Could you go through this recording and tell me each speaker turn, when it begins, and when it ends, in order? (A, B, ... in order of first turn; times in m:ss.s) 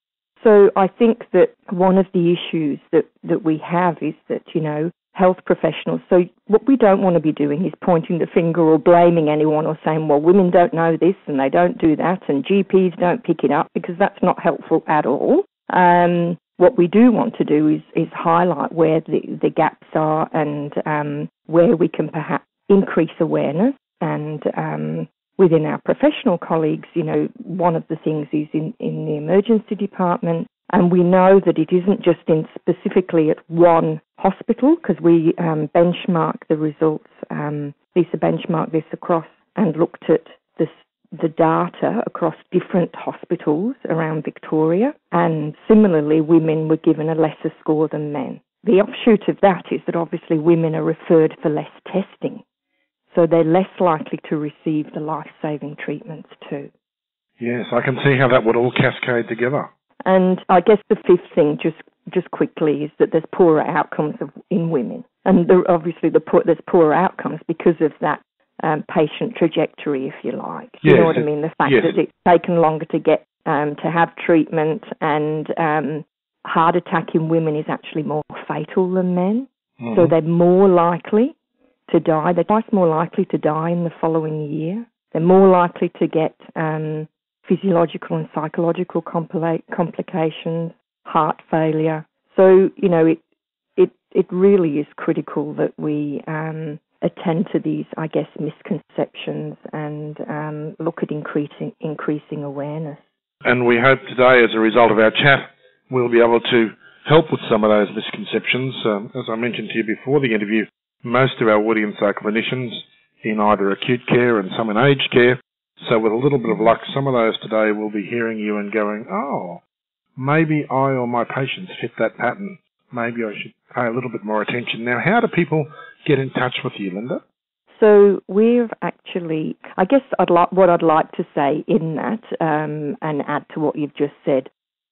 0:00.4-0:52.4 A
0:53.1-0:56.7 A
0:57.4-0:59.7 B
1:00.0-1:21.4 A
1:10.8-1:12.0 B
1:19.8-1:20.1 B
1:21.9-1:33.2 A
1:33.8-1:43.0 A
1:43.4-1:59.6 B
2:00.2-2:07.2 B
2:07.7-2:14.5 A